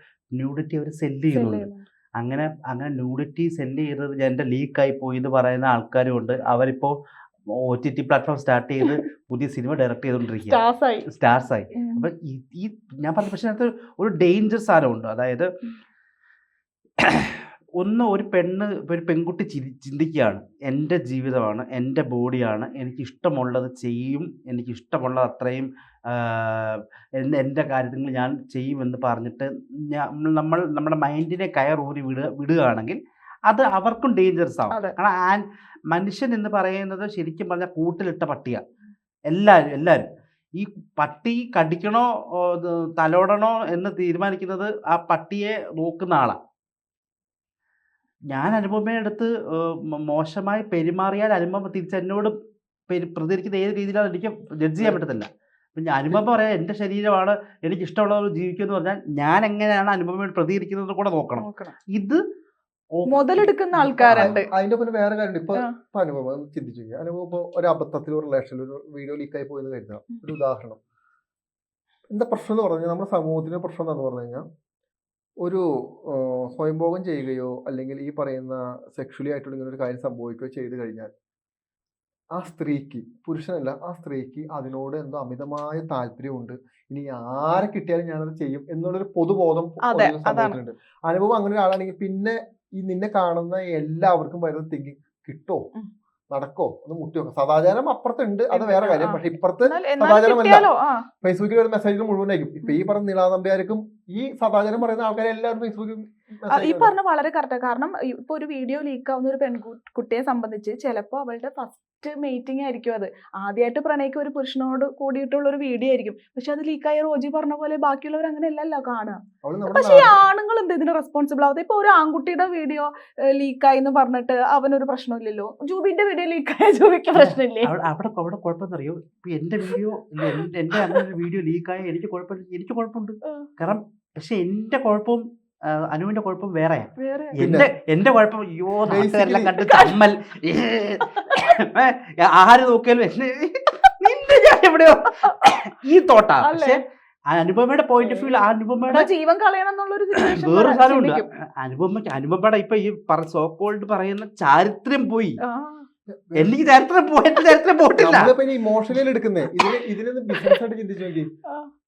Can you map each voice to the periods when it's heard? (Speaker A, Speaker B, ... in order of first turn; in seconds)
Speaker A: 0.3-6.9, 7.7-15.5, 17.0-33.0, 33.5-38.6, 39.3-46.4, 48.3-52.3, 52.9-62.2, 62.9-63.4, 64.1-64.3, 127.1-135.2, 135.7-146.8, 147.3-149.1, 150.2-155.4, 156.3-158.3
Speaker B: 1.3-1.8, 10.5-11.1, 11.7-12.0, 34.7-34.9, 61.4-61.8, 63.1-64.5, 89.8-90.6, 98.5-101.0, 106.5-119.2, 119.7-127.7, 130.3-131.0, 137.0-137.4, 141.0-141.5, 146.4-146.8, 148.0-148.3, 148.9-151.2, 155.4-155.9
Speaker C: 63.7-70.8, 72.1-74.4, 75.4-81.1, 82.3-95.6, 96.3-100.6, 101.2-106.9, 119.4-120.2, 137.4-137.7, 138.8-139.9, 156.2-156.7, 158.0-161.3